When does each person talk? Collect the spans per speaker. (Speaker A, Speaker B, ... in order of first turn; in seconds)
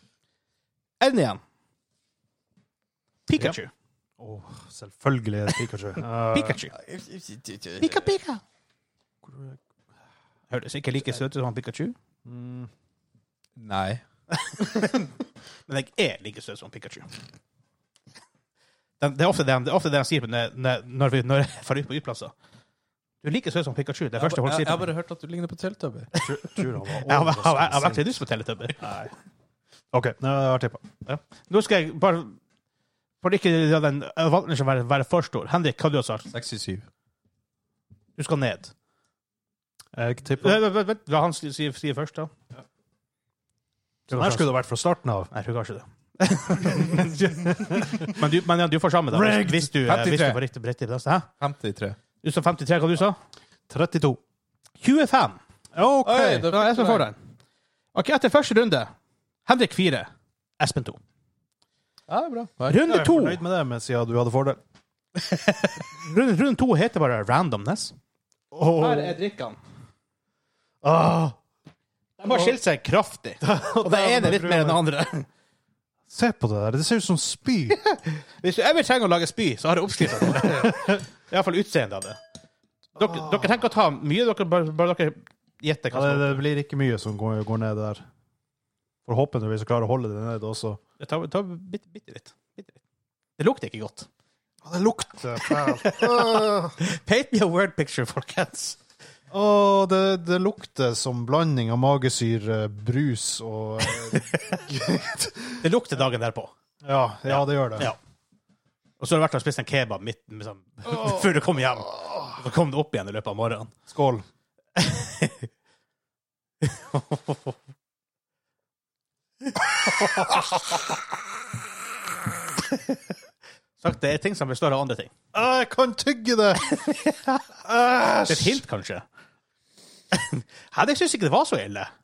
Speaker A: 1.0-1.4, 3.3-3.7, 6.3-6.7, 7.8-8.4, 10.5-12.0, 14.4-15.1, 15.7-17.1, 19.0-22.3, 23.2-24.9, 26.2-28.8, 31.1-32.4, 33.2-36.3, 38.2-38.7, 40.4-42.3, 44.1-44.5, 45.3-51.3, 52.2-53.2, 54.8-55.4, 56.4-57.2, 58.0-58.9, 59.5-61.0, 62.7-63.4, 65.2-67.9, 68.8-69.6, 72.2-75.3, 77.7-82.2, 83.0-86.4, 91.0-92.8, 93.4-94.1, 95.4-98.8, 105.6-106.5, 107.3-108.0, 109.0-113.7, 114.8-115.4, 116.6-117.4, 123.8-125.1, 126.6-127.4, 128.3-129.1, 130.1-131.9
Speaker B: 4.2-6.6, 9.2-9.6, 12.2-12.7, 26.2-28.1, 28.8-29.1, 29.9-30.9, 40.0-40.6, 44.1-45.3, 46.9-48.1, 49.1-49.7, 53.7-54.2, 55.8-56.5, 62.8-64.6, 68.5-69.2, 70.8-71.4, 72.3-72.5, 73.4-74.8, 76.1-77.8, 80.3-81.0, 83.0-83.5, 85.9-88.0, 89.0-90.8, 94.6-96.8, 99.3-105.6, 106.8-107.9, 113.9-114.2, 120.0-120.5, 125.3-126.7, 127.7-128.6
Speaker C: 6.7-8.2, 13.6-14.0, 24.2-26.1, 36.3-36.9, 49.9-50.4, 51.4-52.0, 56.0-57.1, 62.1-62.8